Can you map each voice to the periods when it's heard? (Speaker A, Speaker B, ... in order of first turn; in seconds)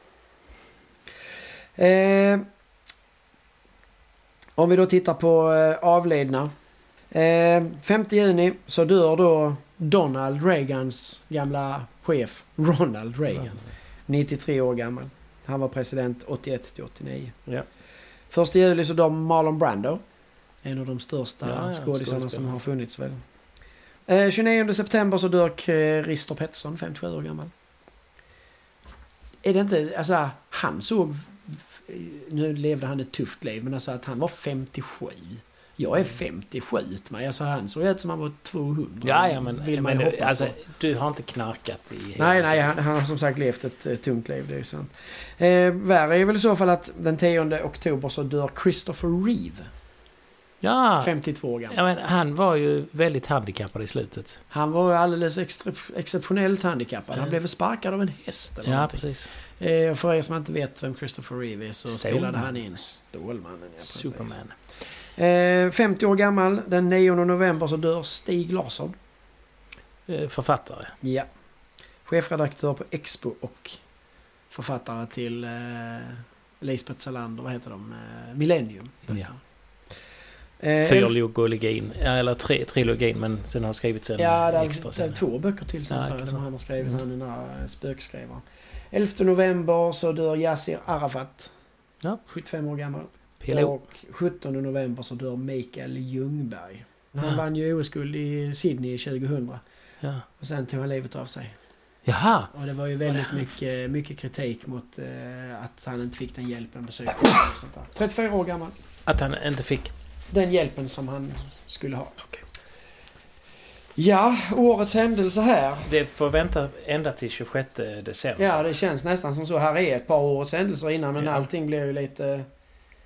Speaker A: 1.7-2.4, 4.5-6.5, 7.1-17.4, 18.3-20.0, 20.6-23.2, 24.1-27.5, 29.4-40.6, 42.2-49.7, 51.0-51.8, 54.5-68.9, 71.0-71.3, 72.0-73.8, 74.5-79.4, 80.6-81.1, 84.2-91.5, 92.2-99.6, 100.3-101.7, 102.5-108.7, 110.3-112.2, 113.9-115.9, 118.4-122.5
Speaker B: 13.3-13.7, 21.4-22.6, 39.0-42.6, 50.6-51.1, 51.7-54.4, 58.6-59.3, 61.9-62.5, 63.8-64.6, 70.1-70.9, 80.8-85.2, 85.9-87.0, 93.4-93.7, 100.0-100.2, 102.0-102.5, 109.0-109.9, 115.8-118.6